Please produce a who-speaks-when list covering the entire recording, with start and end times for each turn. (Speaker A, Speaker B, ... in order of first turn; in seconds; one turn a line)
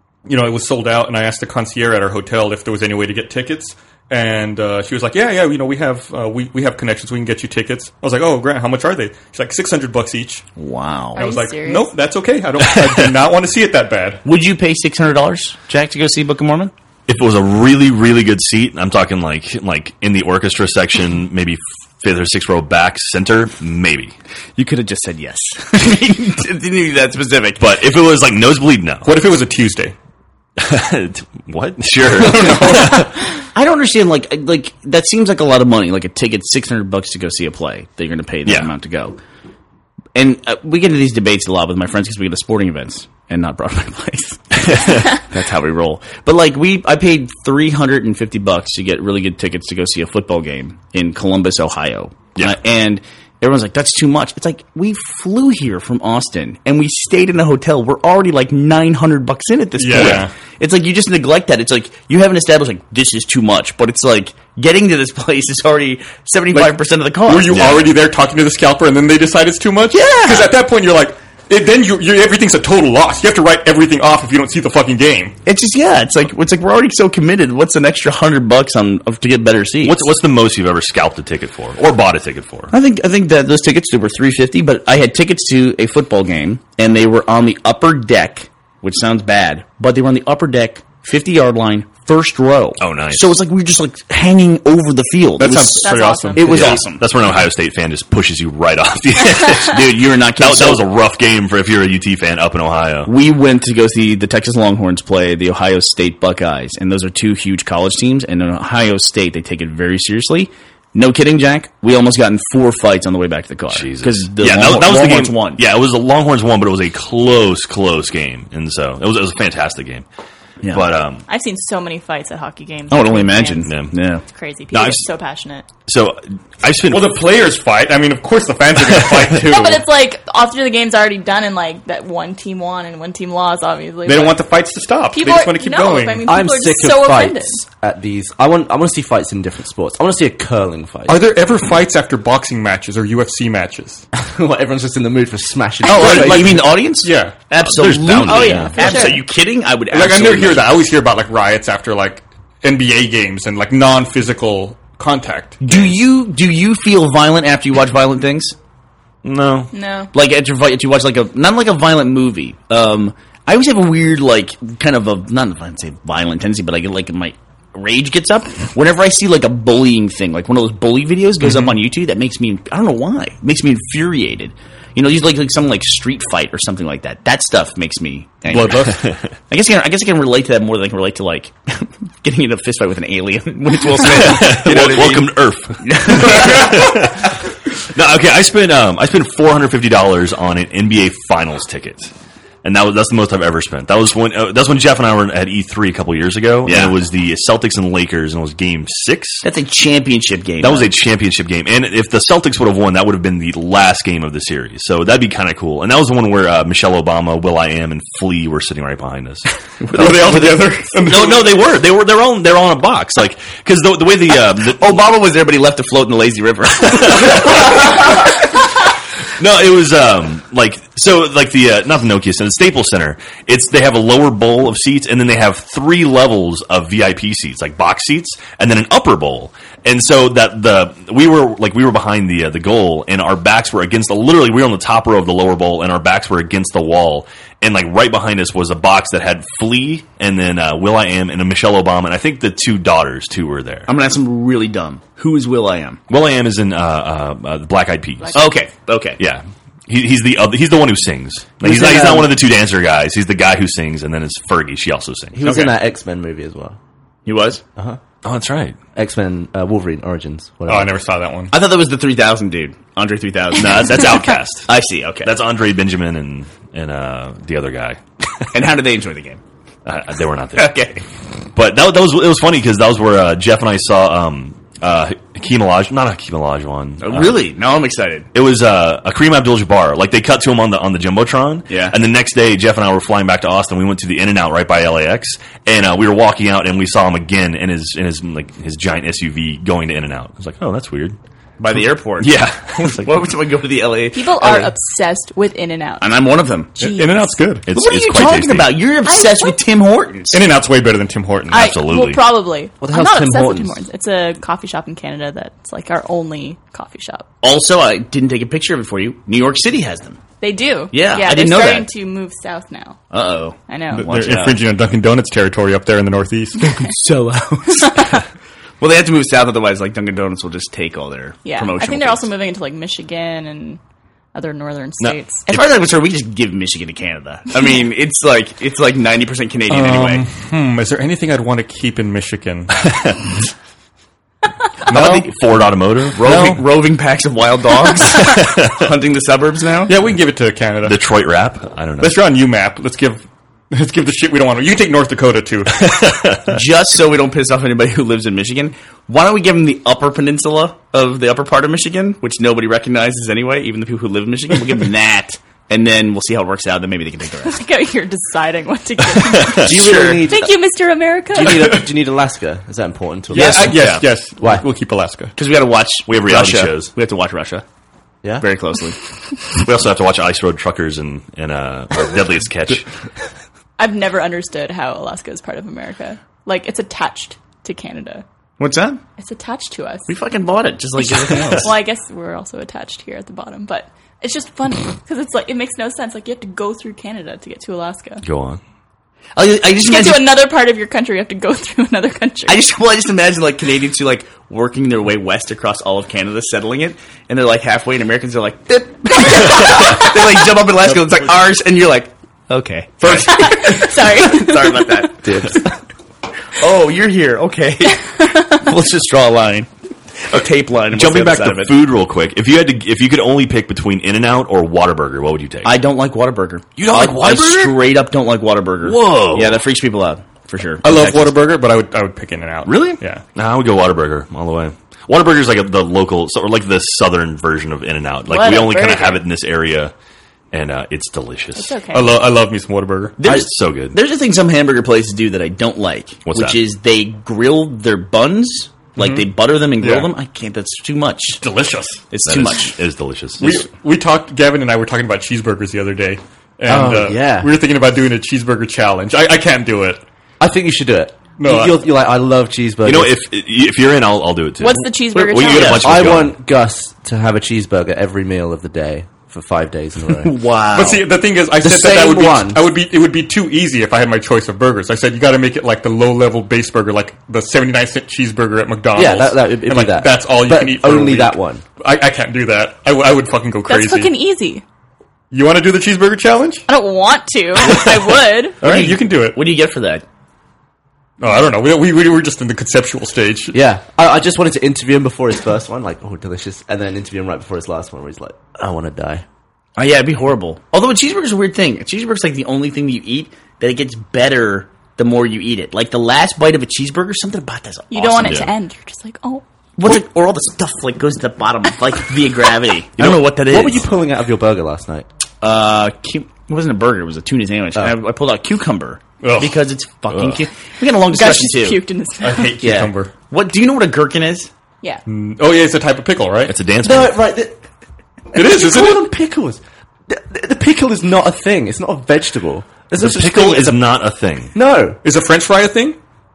Speaker A: 0.2-10.4
Speaker B: 10.6-11.2
Speaker C: 11.2-11.9
Speaker A: 11.2-14.2
Speaker D: 12.6-13.2
Speaker B: 14.2-16.7
Speaker D: 17.1-24.1
Speaker B: 24.6-27.6
Speaker D: 27.6-29.2
Speaker A: 29.0-29.9
Speaker D: 30.6-33.1
Speaker A: 32.1-33.1
Speaker B: 33.5-39.2
Speaker D: 38.5-38.7
Speaker B: 40.1-67.6
Speaker D: 44.6-45.2
Speaker A: 59.8-60.3
Speaker D: 59.9-60.3
Speaker A: 66.5-75.3
Speaker D: 67.5-67.9
Speaker B: 69.9-70.5
Speaker B: 75.5-80.1
Speaker D: 79.8-82.7
Speaker B: 82.7-97.1
Speaker D: 92.8-93.3
Speaker A: 95.4-96.8
Speaker C: 95.7-96.6
Speaker D: 96.5-103.1
Speaker B: 99.7-100.9
Speaker B: 103.0-115.6
Speaker D: 113.7-120.0
Speaker D: 120.7-121.2
Speaker C: 121.3-125.7
Speaker B: 122.9-124.2
Speaker D: 123.7-124.0
Speaker D: 124.7-125.1
Speaker D: 125.8-127.2
Speaker A: 126.9-129.9
Speaker C: 129.4-134.5
Speaker A: 134.0-136.2
Speaker C: 135.1-137.6
Speaker E: 136.2-141.2
Speaker A: 141.1-144.0
Speaker E: 144.2-146.6
Speaker B: 145.8-150.9
Speaker A: 145.9-147.3
Speaker D: 147.6-149.1
Speaker C: 148.2-149.2
Speaker A: 149.9-155.9
Speaker B: 155.6-158.6
Speaker D: 159.2-159.7
Speaker C: 159.7-160.1
Speaker B: 160.1-186.8
Speaker A: 178.5-179.0
Speaker D: 178.9-179.2
Speaker D: 184.0-187.2
Speaker D: 187.9-192.1
Speaker D: 192.6-199.4
Speaker B: 196.7-196.9
Speaker B: 199.4-200.9
Speaker D: 200.6-214.9
Speaker B: 209.8-210.8
Speaker A: 209.9-211.5
Speaker B: 214.6-217.9
Speaker D: 217.0-218.2
Speaker D: 219.4-243.9
Speaker B: 243.9-246.0
Speaker D: 246.1-248.4
Speaker C: 248.2-248.5
Speaker B: 248.3-249.2
Speaker D: 249.2-255.5
Speaker E: 251.6-252.3
Speaker E: 255.3-256.8
Speaker B: 257.2-257.6
Speaker D: 258.2-258.8
Speaker E: 258.9-260.9
Speaker A: 260.7-261.5
Speaker B: 261.5-264.1
Speaker D: 263.5-264.7
Speaker B: 264.7-265.3
Speaker D: 265.2-268.0
Speaker B: 268.5-269.4
Speaker D: 269.9-270.8
Speaker B: 270.5-271.0
Speaker D: 271.5-277.4
Speaker B: 277.0-278.3
Speaker D: 278.3-291.1
Speaker B: 281.7-282.0
Speaker B: 291.6-294.7
Speaker D: 292.2-293.1
Speaker C: 294.1-296.1
Speaker B: 296.0-296.7
Speaker C: 296.8-297.6
Speaker A: 296.8-297.7
Speaker D: 297.6-298.8
Speaker B: 297.7-300.4
Speaker C: 299.1-299.6
Speaker A: 300.3-301.6
Speaker D: 301.5-302.2
Speaker C: 301.5-307.3
Speaker E: 302.8-303.8
Speaker B: 307.4-310.2
Speaker C: 310.4-313.0
Speaker B: 310.9-311.9
Speaker B: 313.1-314.6
Speaker C: 313.7-314.1
Speaker A: 313.9-316.6
Speaker B: 316.7-318.2
Speaker C: 317.9-318.1
Speaker B: 318.8-322.3
Speaker C: 321.4-323.8
Speaker C: 324.3-325.6
Speaker B: 325.5-330.3
Speaker A: 329.7-332.7
Speaker B: 334.9-335.4
Speaker A: 334.9-335.3
Speaker D: 334.9-336.6
Speaker B: 336.1-339.9
Speaker D: 338.2-338.7
Speaker A: 339.9-341.0
Speaker D: 340.8-342.2
Speaker A: 342.0-345.8
Speaker D: 345.8-346.6
Speaker B: 346.5-357.6
Speaker C: 357.4-361.7
Speaker D: 359.2-359.7
Speaker E: 359.6-360.5
Speaker B: 359.6-360.3
Speaker E: 361.3-363.8
Speaker A: 361.6-361.8
Speaker A: 363.3-365.3
Speaker B: 363.3-364.0
Speaker B: 365.4-367.6
Speaker D: 366.1-366.9
Speaker B: 368.4-369.0
Speaker D: 369.6-372.8
Speaker C: 373.8-378.2
Speaker B: 378.6-379.0
Speaker C: 379.2-380.1
Speaker B: 380.1-381.7
Speaker C: 381.0-388.2
Speaker D: 388.2-388.6
Speaker B: 389.4-390.4
Speaker C: 389.8-392.6
Speaker B: 392.5-405.6
Speaker A: 403.0-403.8
Speaker C: 403.2-405.2
Speaker E: 405.2-405.6
Speaker B: 406.6-409.7
Speaker C: 407.9-408.5
Speaker B: 410.2-411.9
Speaker D: 410.9-415.7
Speaker B: 415.6-421.4
Speaker D: 416.8-417.8
Speaker D: 418.8-419.6
Speaker A: 420.8-423.2
Speaker D: 422.6-429.9
Speaker C: 428.2-429.2
Speaker D: 430.5-431.8
Speaker C: 431.6-432.2
Speaker A: 431.9-433.2
Speaker B: 433.2-441.4
Speaker D: 433.2-433.9
Speaker D: 436.2-436.6
Speaker A: 438.9-439.2
Speaker A: 439.8-440.1
Speaker A: 441.4-442.1
Speaker B: 442.1-442.8
Speaker D: 442.2-443.6
Speaker A: 443.4-450.0
Speaker E: 446.7-447.5
Speaker E: 450.4-453.2
Speaker A: 451.4-451.8
Speaker D: 452.8-456.4
Speaker C: 454.6-456.1
Speaker B: 455.1-456.0
Speaker E: 455.8-460.3
Speaker B: 460.2-461.0
Speaker A: 460.7-474.1
Speaker E: 461.6-462.6
Speaker E: 468.9-471.6
Speaker C: 473.7-474.6
Speaker A: 475.3-476.6
Speaker C: 476.7-478.7
Speaker B: 478.6-480.0
Speaker A: 478.6-479.4
Speaker A: 481.2-483.5
Speaker E: 483.5-489.2
Speaker B: 489.8-498.5
Speaker C: 497.9-499.4
Speaker D: 498.2-498.5
Speaker B: 499.8-503.9
Speaker D: 503.0-503.3
Speaker E: 503.4-505.1
Speaker B: 505.4-511.8
Speaker A: 509.2-509.6
Speaker D: 510.1-510.4
Speaker C: 511.1-512.7
Speaker A: 512.2-513.1
Speaker B: 512.6-514.5
Speaker A: 515.1-516.5
Speaker D: 516.5-517.2
Speaker E: 516.8-517.6
Speaker A: 518.3-519.1
Speaker E: 518.3-523.9
Speaker D: 522.9-524.5
Speaker E: 524.5-525.0
Speaker A: 525.0-526.0